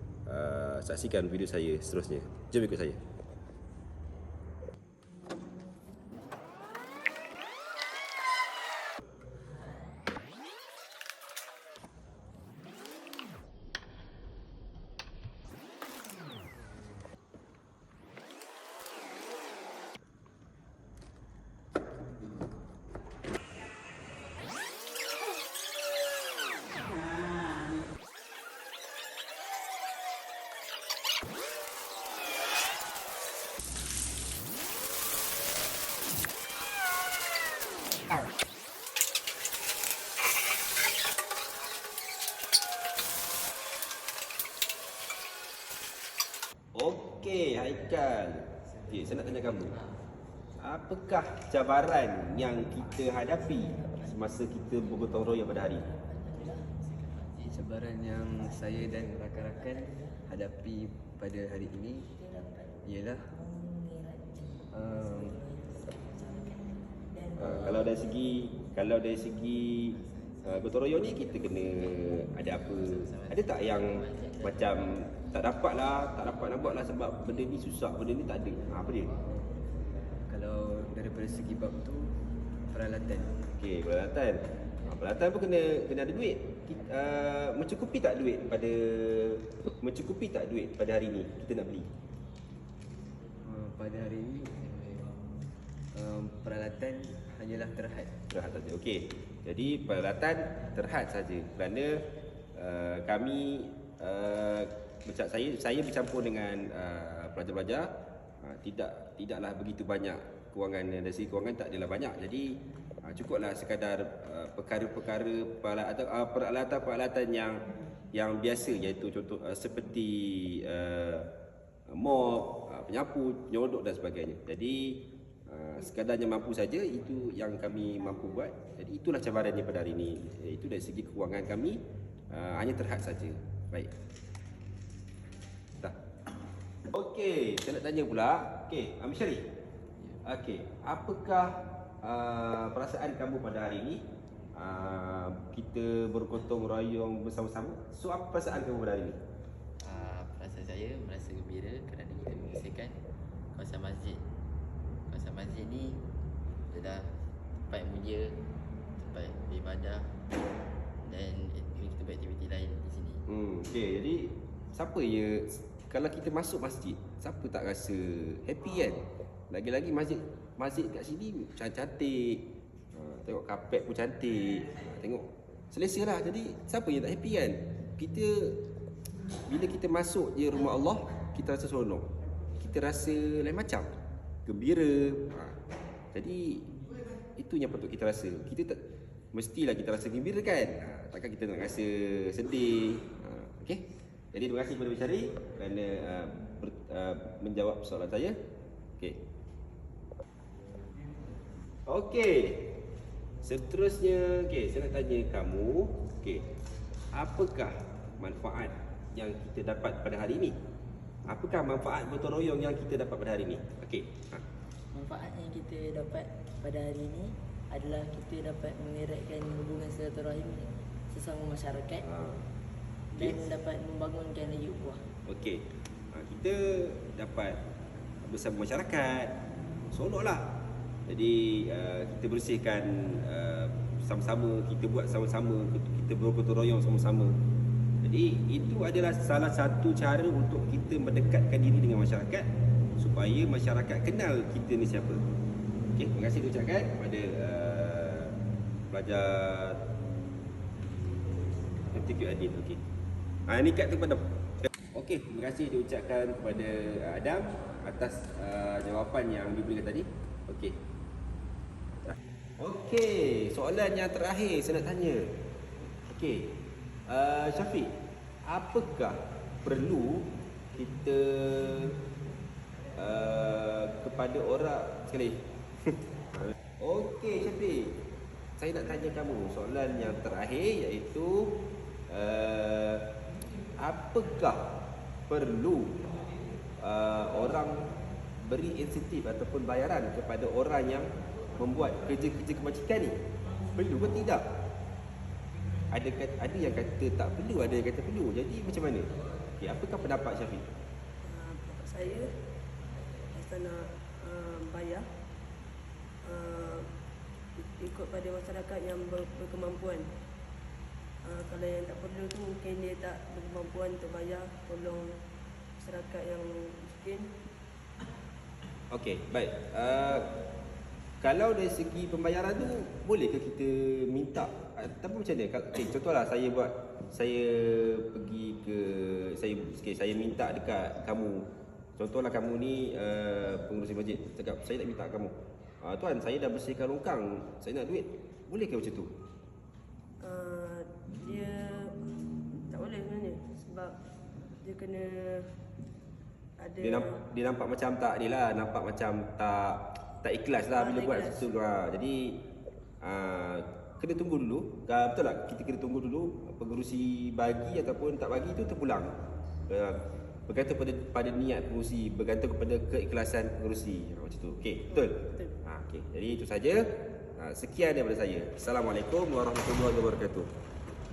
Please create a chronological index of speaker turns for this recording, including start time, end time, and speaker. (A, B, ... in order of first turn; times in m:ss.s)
0:00.3-0:03.0 A
0:46.8-0:49.7 A
0:48.8-0:50.0 B
0:50.6-0:55.9 A
0:53.3-0:54.9 C
0:55.6-0:56.7 C
0:56.6-0:57.7 B
0:57.5-1:02.1 D
0:58.4-0:58.7 C
0:59.6-1:00.2 C
1:02.3-1:02.8 C
1:02.8-1:03.3 D
1:03.4-1:07.4 C
1:04.7-1:05.4 D
1:07.4-1:19.1 A
1:09.9-1:11.0 B
1:11.9-1:15.1 B
1:20.3-1:22.1 D
1:22.7-1:23.4 D
1:23.6-1:31.9 A
1:33.4-1:35.0 D
1:35.9-1:38.1 D
1:38.3-1:42.0 A
1:42.6-1:47.9 A
1:48.4-1:52.5 A
1:53.0-1:57.6 A
1:58.1-2:01.3 A
2:01.9-2:11.8 A
2:12.3-2:13.9 A
2:16.9-2:19.4 A
2:20.2-2:21.5 A
2:22.0-2:24.0 A
2:24.6-2:29.2 A
2:29.8-2:33.0 B
2:33.5-2:34.2 B
2:35.1-2:36.0 B
2:36.7-2:38.4 B
2:39.0-2:40.1 B
2:41.0-2:43.2 B
2:43.3-2:58.6 A
2:59.5-3:03.9 A
3:04.5-3:05.6 A
3:06.1-3:06.7 A
3:07.4-3:08.8 A
3:09.3-3:13.8 A
3:14.3-3:18.4 A
3:21.9-3:22.6 A
3:23.4-3:26.4 A
3:27.1-3:30.6 A
3:31.3-3:34.4 A
3:34.9-3:42.0 C
3:42.0-3:42.5 A
3:43.2-3:43.4 A
3:43.2-3:45.0 C
3:45.3-3:47.6 A
3:48.2-3:49.4 A
3:49.9-3:50.4 A
3:51.1-3:57.4 A
3:58.0-4:02.5 A
4:03.0-4:05.2 A
4:06.0-4:08.4 A
4:08.9-4:09.8 A
4:11.9-4:12.8 A
4:13.5-4:14.3 A
4:14.9-4:20.8 A
4:22.1-4:25.2 A
4:26.0-4:26.5 A
4:27.1-4:28.0 A
4:28.5-4:32.0 A
4:33.0-4:35.5 A
4:36.8-4:38.0 A
4:38.6-4:41.6 A
4:42.1-4:43.1 A
4:43.8-4:44.7 A
4:45.3-4:46.0 A
4:46.8-4:47.9 A
4:48.4-4:53.2 A
4:53.7-4:54.4 A
4:55.9-5:00.7 A
5:01.2-5:02.3 E
5:03.3-5:05.1 E
5:06.2-5:06.9 E
5:07.6-5:10.1 E
5:11.2-5:15.2 E
5:15.8-5:17.3 E
5:18.9-5:20.3 A
5:21.2-5:39.1 A
5:40.2-5:44.0 E
5:44.6-5:45.6 E
5:46.6-5:47.1 E
5:46.8-5:52.4 A
5:50.7-5:51.4 E
5:53.0-5:59.1 A
5:59.7-6:06.8 A
6:07.4-6:10.5 A